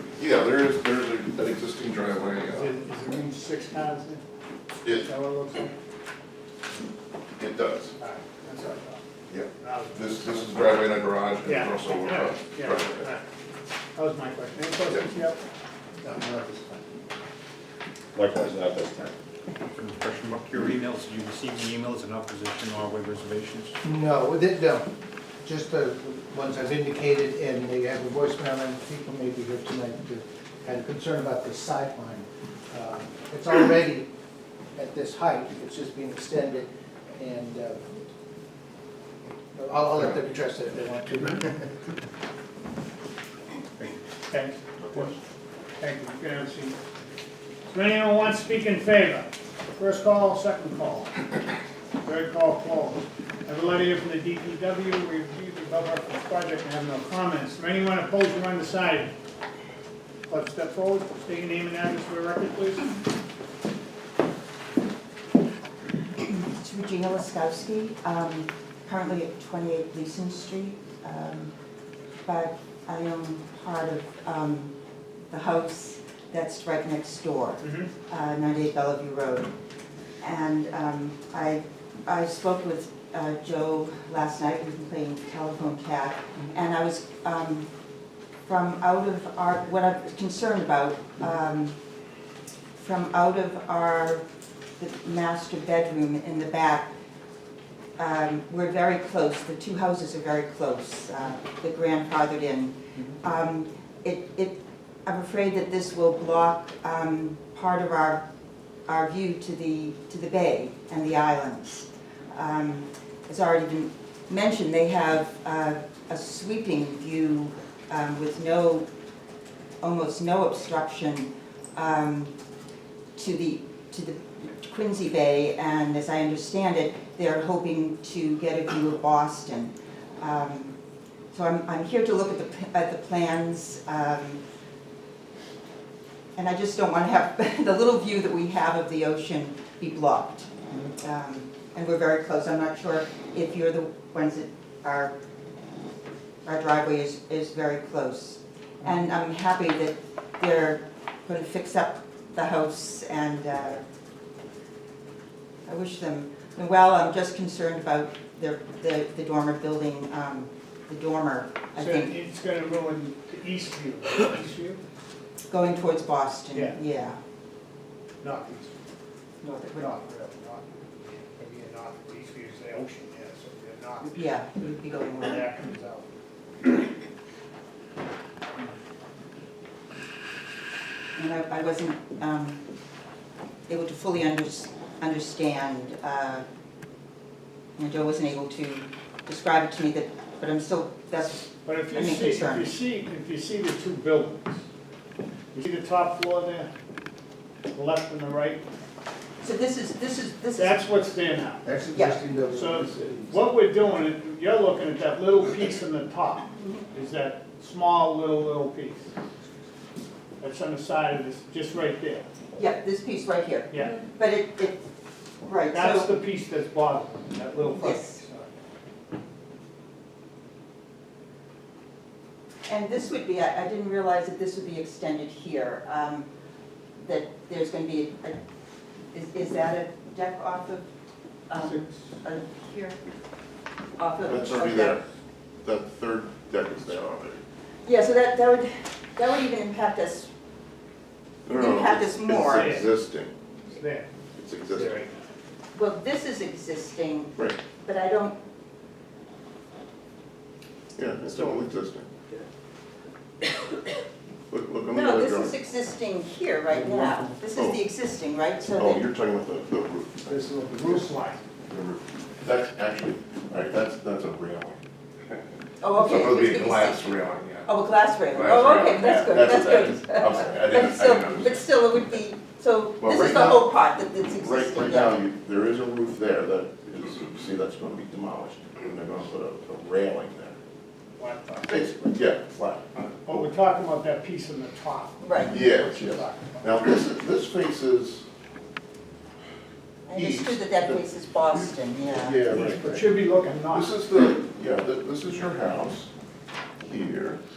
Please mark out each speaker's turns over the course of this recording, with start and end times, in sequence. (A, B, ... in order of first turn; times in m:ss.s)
0:00.2-0:02.7 A
0:02.5-0:04.2 B
0:05.0-0:05.7 B
0:07.4-0:07.9 A
0:08.0-0:09.0 B
0:09.3-0:13.1 A
0:09.6-0:10.7 B
0:11.4-0:13.2 B
0:14.0-0:15.4 B
0:16.0-0:16.8 C
0:19.8-0:23.7 D
0:23.8-0:24.9 C
0:25.4-0:34.1 C
0:34.8-0:38.0 C
0:39.5-0:41.7 C
0:44.3-0:45.1 B
0:45.8-0:46.8 B
0:47.7-0:51.2 B
0:52.0-0:59.1 B
1:00.3-1:02.9 B
1:06.2-1:11.5 E
1:12.3-1:14.7 E
1:15.3-1:19.5 E
1:17.6-1:17.9 B
1:20.2-1:27.7 E
1:28.5-1:31.8 E
1:32.8-1:34.2 E
1:34.8-1:36.9 E
1:38.0-1:48.2 E
1:48.9-1:58.9 E
1:59.8-2:02.3 E
2:03.2-2:10.8 E
2:11.3-2:14.4 E
2:16.4-2:25.1 E
2:26.4-2:33.8 E
2:35.7-2:42.2 E
2:41.8-2:44.8 B
2:45.5-2:47.2 E
2:46.5-2:46.8 B
2:48.2-2:48.7 B
2:49.4-2:49.9 E
2:49.8-2:54.3 B
2:54.2-2:55.5 E
2:55.2-2:56.1 B
3:01.2-3:02.6 E
3:03.7-3:06.4 E
3:07.8-3:12.7 E
3:11.6-3:14.6 B
3:15.5-3:16.7 B
3:17.7-3:18.6 B
3:19.4-3:20.8 E
3:20.6-3:21.7 B
3:21.6-3:23.5 C
3:22.5-3:29.1 B
3:26.6-3:26.8 E
3:30.4-3:32.3 B
3:32.6-3:34.8 E
3:33.7-3:34.0 B
3:35.4-3:36.1 E
3:35.7-3:38.5 B
3:37.8-3:38.2 E
3:42.7-3:46.3 E
3:47.0-3:48.4 E
3:49.1-3:50.9 E
3:51.5-3:53.0 E
3:51.6-3:52.0 B
3:54.0-3:55.0 E
3:54.3-3:55.0 A
3:55.6-3:57.4 A
3:57.9-4:00.3 E
4:01.5-4:03.3 A
4:01.5-4:02.9 E
4:02.4-4:02.9 B
4:03.7-4:04.1 B
4:04.4-4:05.0 A
4:04.7-4:05.1 B
4:05.8-4:08.4 E
4:11.0-4:12.1 A
4:14.5-4:15.6 A
4:14.9-4:19.1 E
4:16.7-4:17.3 C
4:18.8-4:20.4 A
4:20.3-4:21.4 C
4:21.7-4:24.8 A
4:25.8-4:27.2 E
4:26.0-4:27.7 A
4:27.7-4:35.2 E
4:28.3-4:31.7 A
4:33.0-4:33.7 A
4:34.4-4:40.6 A
4:41.2-4:41.8 B
4:41.7-4:42.9 A
4:43.2-4:46.8 B
4:45.2-4:45.6 E
4:45.5-4:48.2 A
4:50.1-4:52.5 E
4:50.2-4:53.1 A
4:52.5-4:54.0 B
4:53.7-4:56.1 A
4:56.8-4:57.4 A